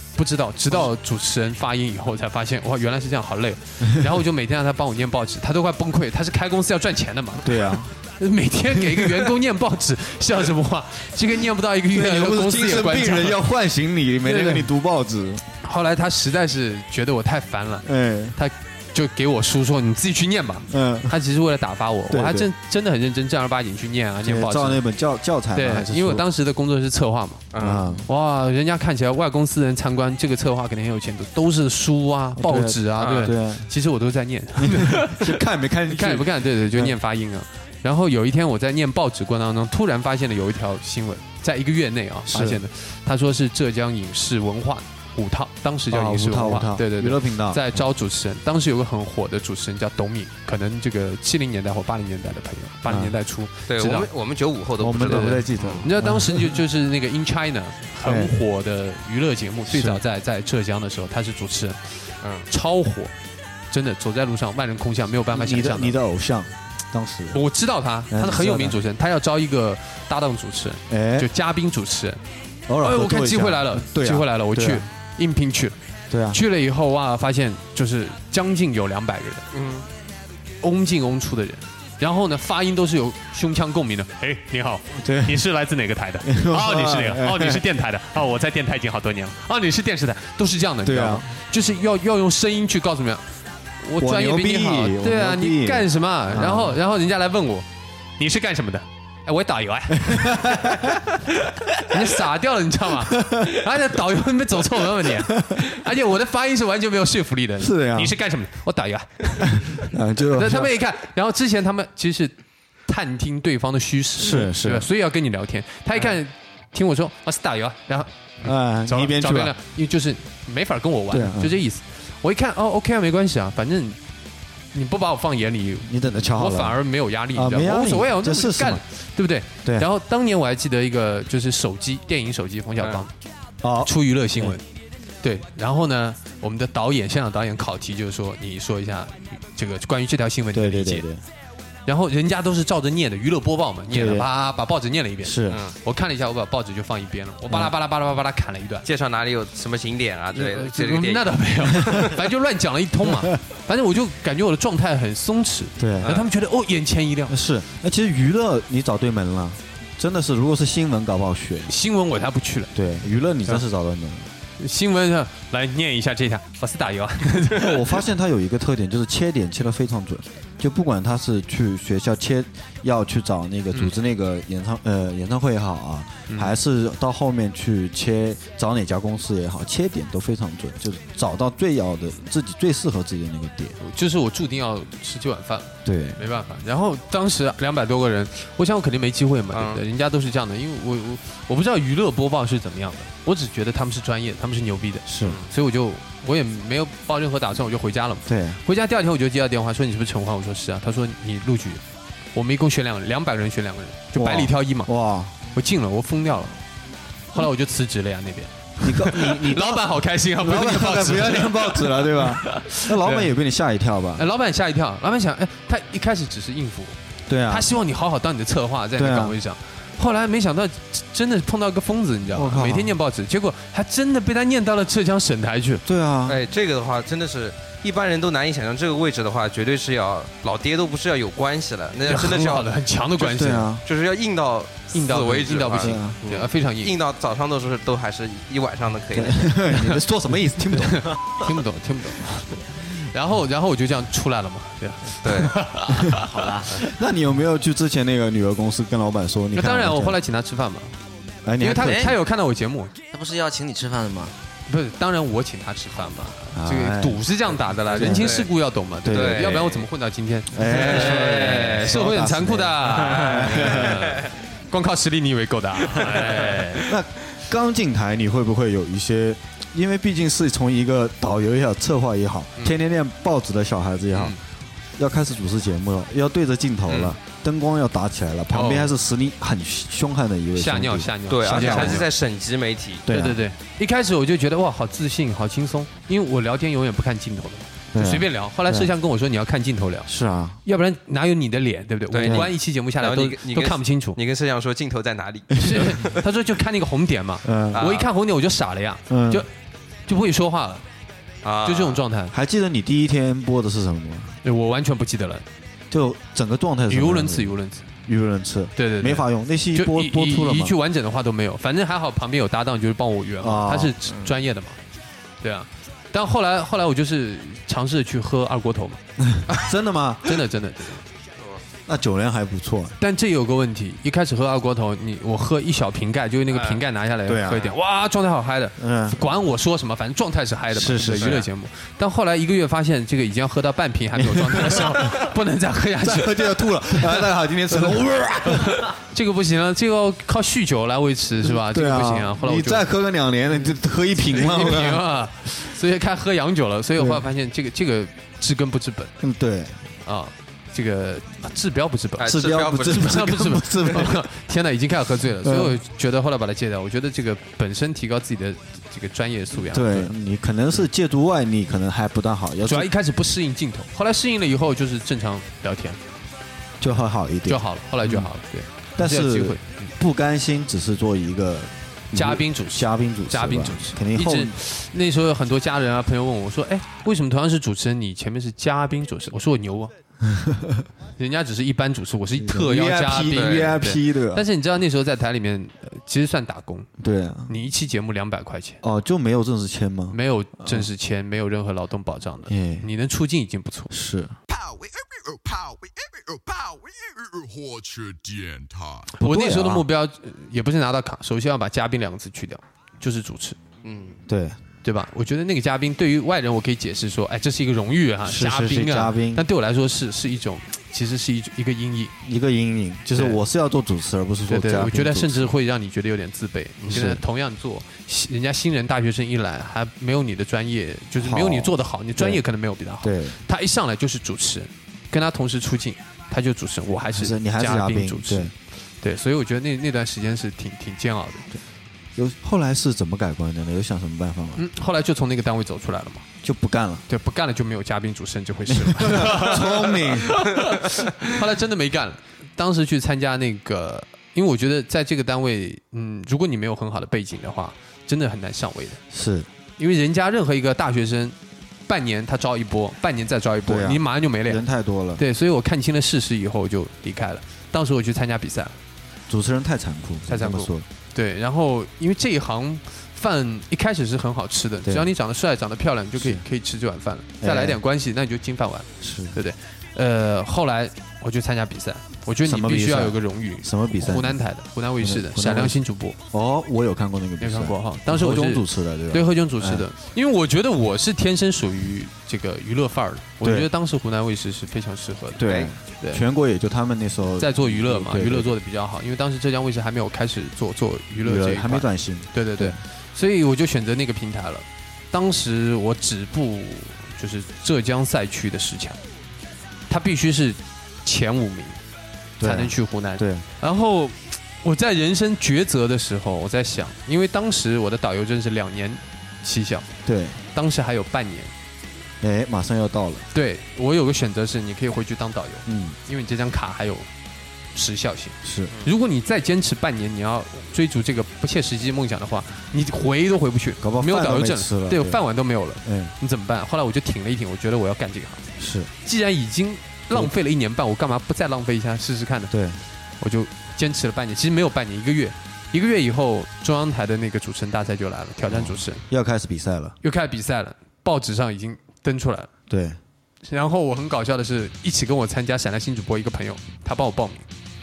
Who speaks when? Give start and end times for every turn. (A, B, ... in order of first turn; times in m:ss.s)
0:00.2-0:13.4 A
0:07.4-0:07.9 B
0:08.9-0:09.3 B
0:11.9-0:15.4 B
0:14.2-0:14.7 A
0:15.6-0:24.8 A
0:17.8-0:18.4 B
0:20.7-0:21.1 B
0:22.1-0:22.5 B
0:24.2-0:26.2 B
0:25.5-0:27.5 A
0:27.5-0:28.0 C
0:27.6-0:28.1 B
0:28.1-0:35.3 A
0:32.4-0:33.7 B
0:33.0-0:33.3 C
0:34.6-0:37.0 B
0:35.9-0:54.1 A
0:42.3-0:42.6 B
0:45.9-0:47.8 B
0:52.9-0:53.2 B
0:53.7-0:55.9 C
0:54.8-0:56.6 B
0:55.0-1:03.1 A
0:58.0-0:58.4 B
0:59.7-1:00.0 B
1:03.7-1:06.0 A
1:05.3-1:07.4 B
1:07.3-1:12.2 A
1:08.1-1:08.8 B
1:10.9-1:11.3 B
1:12.7-1:14.9 B
1:12.8-1:15.8 A
1:16.1-1:16.4 B
1:16.3-1:19.5 A
1:19.5-1:19.9 C
1:20.6-1:33.2 A
1:25.0-1:25.4 B
1:26.2-1:27.6 B
1:30.8-1:31.3 B
1:33.8-1:37.7 A
1:34.0-1:36.8 B
1:38.2-1:40.7 A
1:40.0-1:41.2 B
1:41.8-1:52.3 A
1:43.0-1:43.6 B
1:45.0-1:45.6 B
1:47.6-1:48.2 B
1:49.8-1:50.7 B
1:52.9-2:04.0 A
1:54.2-1:54.9 B
1:58.4-1:59.5 B
2:01.1-2:01.6 B
2:04.7-2:13.1 A
2:05.9-2:06.8 B
2:07.3-2:08.8 B
2:12.8-2:13.1 C
2:13.6-2:14.6 B
2:13.8-2:14.6 A
2:15.2-2:21.0 A
2:20.5-2:21.2 B
2:21.9-2:28.9 A
2:23.9-2:24.3 B
2:25.2-2:25.6 B
2:25.5-2:25.8 C
2:28.8-2:32.2 C
2:30.4-2:37.4 A
2:33.0-2:33.4 B
2:35.8-2:36.2 B
2:36.0-2:36.3 C
2:37.3-2:41.8 B
2:41.7-2:42.7 A
2:42.8-2:44.3 B
2:44.6-2:47.9 A
2:47.5-3:03.8 B
2:56.3-2:56.5 A
3:03.8-3:21.8 A
3:05.8-3:06.2 B
3:09.5-3:09.8 C
3:15.1-3:15.4 B
3:15.2-3:15.5 C
3:18.3-3:18.6 B
3:22.3-3:24.9 A
3:24.2-3:25.4 B
3:25.5-3:26.6 A
3:27.3-3:33.3 A
3:28.8-3:34.3 B
3:34.2-3:37.0 A
3:37.3-3:37.7 B
3:37.5-3:45.9 A
3:39.0-3:39.4 B
3:42.3-3:43.0 B
3:45.8-3:46.4 B
3:46.3-3:52.8 C
3:52.1-3:53.7 A
3:53.2-3:53.8 B
3:53.8-3:59.6 C
3:54.9-3:56.9 A
3:55.7-3:56.2 B
3:59.2-4:01.2 B
4:00.7-4:06.3 A
4:05.2-4:05.6 C
4:06.2-4:06.8 D
4:06.8-4:10.2 B
4:09.5-4:11.0 A
4:11.4-4:12.2 B
4:11.6-4:12.9 A
4:11.8-4:12.1 D
4:13.1-4:14.3 D
4:14.7-4:26.9 A
4:16.5-4:17.2 B
4:17.9-4:18.4 B
4:18.0-4:18.5 C
4:19.0-4:19.7 B
4:19.1-4:19.9 C
4:20.5-4:24.1 B
4:20.7-4:21.9 C
4:23.0-4:24.2 C
4:26.0-4:26.9 C
4:26.8-4:34.4 B
4:35.0-4:42.0 B
4:36.9-4:37.1 C
4:38.5-4:38.9 A
4:40.6-4:42.1 A
4:41.3-4:43.1 C
4:43.1-4:43.4 B
4:43.1-4:50.1 A
4:47.9-4:48.9 B
4:50.1-4:50.6 B
4:50.6-4:54.2 A
4:52.1-4:56.2 C
4:52.2-4:52.5 B
4:55.6-4:59.5 A
4:55.6-4:55.9 B
4:57.4-4:57.9 B
4:57.7-4:58.1 C
4:59.1-4:59.5 B
5:00.1-5:00.8 A
5:01.4-5:02.0 C
5:01.6-5:02.3 A
5:02.3-5:04.4 B
5:04.4-5:05.5 A
5:05.9-5:10.8 B
5:06.9-5:07.8 A
5:08.8-5:14.8 A
5:13.4-5:14.0 B
5:15.4-5:19.0 A
5:19.2-5:20.4 B
5:20.2-5:21.0 A
5:21.9-5:23.0 B
5:23.0-5:42.9 A
5:26.5-5:26.8 C
5:27.3-5:27.8 B
5:28.8-5:29.2 B
5:30.7-5:31.4 B
5:31.2-5:31.5 C
5:34.2-5:35.3 B
5:36.0-5:38.9 B
5:41.4-5:45.0 B
5:44.2-5:49.1 A
5:47.0-5:47.2 B
5:49.2-5:49.8 B
5:50.0-6:00.1 A
5:52.2-5:53.2 C
5:52.2-5:54.2 B
5:55.4-5:55.8 B
5:59.7-6:02.9 B
6:02.6-6:06.0 A
6:06.8-6:08.3 B
6:07.5-6:09.9 A
6:09.0-6:14.6 B
6:12.1-6:19.9 A
6:20.2-6:20.9 B
6:21.2-6:26.9 A
6:22.4-6:24.4 B
6:23.3-6:23.8 C
6:27.0-6:27.6 B
6:27.5-6:28.8 A
6:28.8-6:30.9 B
6:30.1-6:33.9 A
6:32.5-6:32.9 B
6:33.9-6:34.4 B
6:34.5-6:39.1 E
6:39.1-6:43.6 A
6:39.2-6:39.9 B
6:43.8-6:44.2 C
6:44.3-6:44.6 B
6:44.8-6:52.1 A
6:48.2-6:49.4 B
6:52.2-6:55.5 B
6:53.1-6:53.4 A
6:54.5-7:11.5 A
6:56.9-6:57.2 B
7:01.2-7:02.4 B
7:03.0-7:03.4 B
7:07.1-7:08.5 B
7:12.2-7:14.6 B
7:14.6-7:16.2 A
7:16.4-7:17.1 B
7:17.1-7:29.0 A
7:18.7-7:20.5 B
7:29.1-7:29.5 B
7:29.8-7:31.4 A
7:31.9-7:34.6 A
7:33.7-7:35.2 B
7:35.2-7:38.8 A
7:39.3-7:40.9 B
7:40.3-7:56.2 A
7:46.2-7:46.4 B
7:47.4-7:47.8 B
7:49.0-7:49.4 B
7:52.4-7:54.4 B
7:55.0-7:59.9 B
7:57.4-8:06.2 A
8:03.4-8:03.7 B
8:05.4-8:08.5 B
8:05.4-8:05.7 C
8:07.4-8:19.0 A
8:11.2-8:12.8 B
8:19.9-8:21.8 A
8:22.4-8:23.4 B
8:22.4-8:29.9 A
8:30.0-8:30.4 B
8:30.5-8:31.5 A
8:32.2-8:33.3 B
8:33.3-8:37.1 A
8:35.7-8:36.0 B
8:37.7-8:48.5 A
8:38.4-8:38.7 B
8:43.8-8:45.2 B
8:45.8-8:46.1 B
8:48.6-8:48.9 B
8:49.0-8:52.5 A
8:52.5-8:52.8 B
8:53.2-8:59.0 A
8:58.5-9:00.0 B
9:00.0-9:02.5 A
9:02.7-9:03.0 B
9:03.4-9:07.5 A